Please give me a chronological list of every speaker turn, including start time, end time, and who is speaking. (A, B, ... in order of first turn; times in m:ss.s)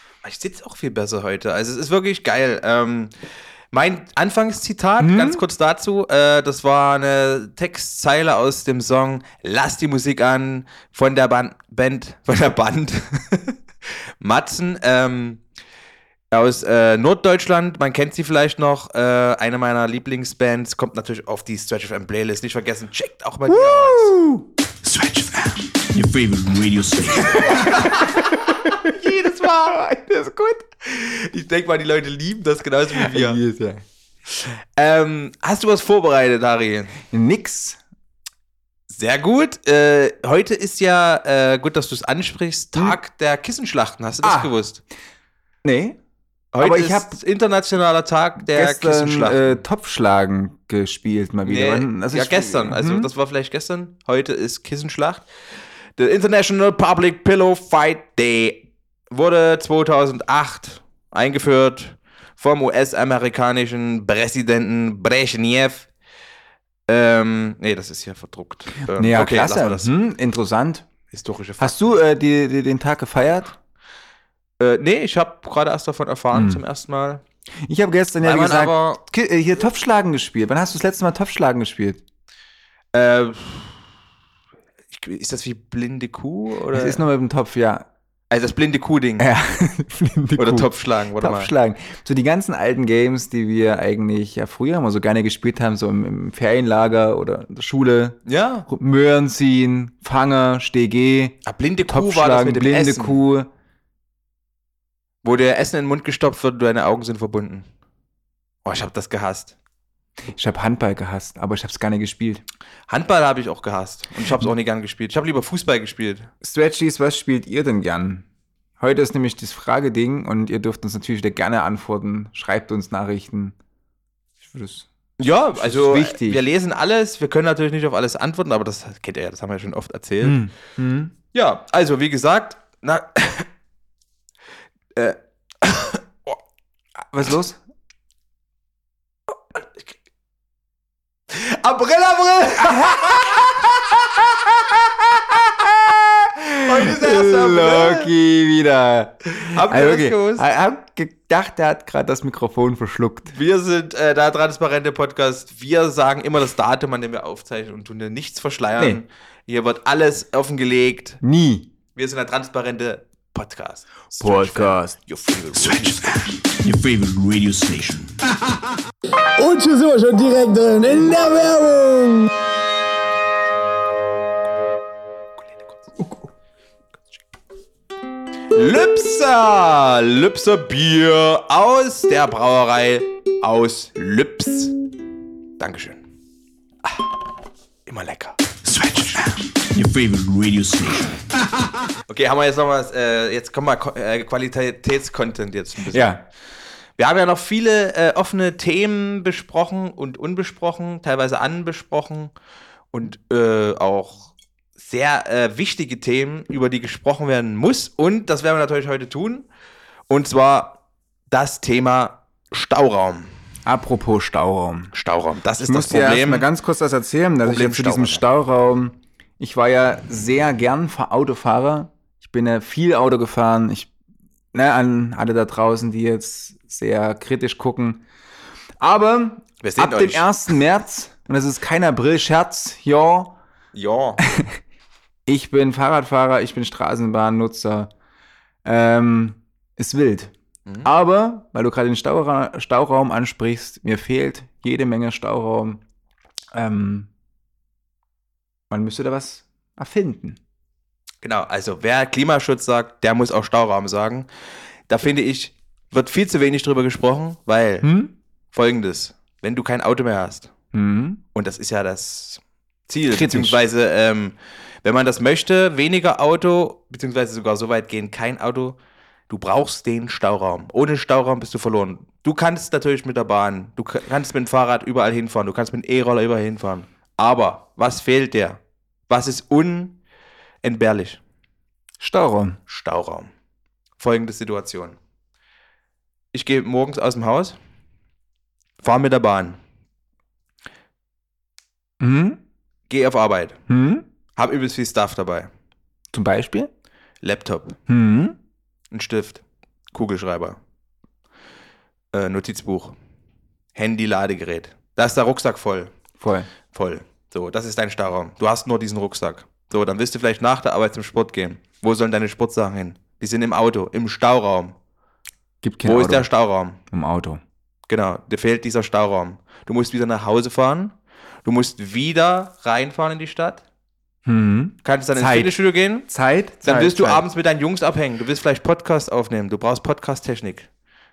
0:00.2-0:03.1 A
0:03.7-0:13.6 A
0:05.0-0:05.4 B
0:14.2-0:15.4 A
0:16.3-0:24.2 A
0:23.5-0:24.5 B
0:24.8-0:27.8 C
0:27.5-0:29.8 A
0:27.6-0:28.5 B
0:29.7-0:30.7 B
0:30.8-0:33.4 A
0:32.9-0:33.8 B
0:34.3-0:37.0 A
0:37.0-0:37.8 B
0:38.9-0:44.8 A
0:44.2-0:44.5 B
0:45.6-0:46.0 B
0:46.5-0:49.6 A
0:46.6-0:47.2 B
0:48.4-0:53.1 B
0:51.5-0:55.3 A
0:56.0-1:05.9 A
1:06.9-1:09.9 A
1:08.9-1:10.9 B
1:11.1-1:11.8 A
1:11.6-1:13.6 B
1:14.6-1:17.2 A
1:16.3-1:16.6 B
1:17.7-1:22.0 B
1:18.2-1:19.0 A
1:22.9-1:23.8 A
1:24.9-1:27.0 A
1:26.7-1:27.9 B
1:28.3-1:29.3 A
1:29.2-1:43.5 B
1:30.4-1:31.5 A
1:38.3-1:38.7 A
1:41.4-1:43.2 A
1:45.2-1:47.7 A
1:48.6-1:49.6 A
1:50.3-1:52.4 B
1:52.9-1:56.3 A
1:56.4-1:58.2 B
1:58.8-2:03.6 B
2:04.5-2:04.9 B
2:05.2-2:10.4 A
2:05.5-2:06.4 B
2:10.2-2:11.1 B
2:11.3-2:13.5 A
2:15.0-2:16.4 A
2:17.1-2:17.6 B
2:21.3-2:23.9 A
2:23.3-2:23.7 B
2:24.2-2:33.4 B
2:26.6-2:28.1 A
2:29.3-2:30.4 A
2:33.3-2:41.2 A
2:38.8-2:39.0 B
2:41.2-2:41.7 B
2:42.0-2:46.0 A
2:44.2-2:45.0 B
2:45.6-2:48.2 C
2:49.4-2:52.3 D
2:58.5-3:04.7 A
3:05.6-3:06.0 A
3:07.9-3:08.4 A
3:08.6-3:11.2 C
3:12.1-3:16.2 A
3:15.9-3:16.2 B
3:17.0-3:22.3 A
3:22.9-3:29.5 A
3:30.1-3:30.8 A
3:31.3-3:33.3 A
3:33.7-3:34.9 B
3:34.9-3:36.5 A
3:35.6-3:43.9 B
3:37.4-3:38.2 A
3:44.5-3:48.0 B
3:48.8-3:53.4 B
3:49.6-3:50.3 A
3:53.7-3:54.2 A
3:54.3-3:54.6 B
3:55.3-3:57.9 B
3:58.6-4:00.3 B
4:00.8-4:05.8 B
4:06.5-4:07.1 B
4:08.7-4:10.4 B
4:11.2-4:14.3 A
4:14.9-4:17.9 A
4:17.8-4:18.1 B
4:18.5-4:20.5 A
4:20.7-4:21.2 B
4:21.3-4:28.8 A
4:23.1-4:23.6 B
4:29.3-4:40.0 A
4:40.6-4:41.2 A
4:42.0-4:42.6 B
4:42.7-4:43.3 A
4:44.0-4:45.0 A
4:46.3-4:47.6 A
4:48.8-4:49.6 A
4:52.0-4:52.4 B
4:52.9-4:53.6 A
4:53.7-4:54.0 B
4:54.4-4:55.5 A
4:56.1-4:56.7 B
4:57.2-4:57.8 A
4:57.9-4:58.4 B
4:58.9-5:00.6 A
5:02.1-5:03.0 A
5:03.8-5:05.9 A
5:06.2-5:06.5 B
5:06.7-5:14.8 A
5:15.6-5:16.3 B
5:15.8-5:16.8 A
5:16.9-5:17.4 B
5:17.9-5:23.6 A
5:24.2-5:27.2 B
5:24.8-5:26.1 A
5:26.6-5:30.7 A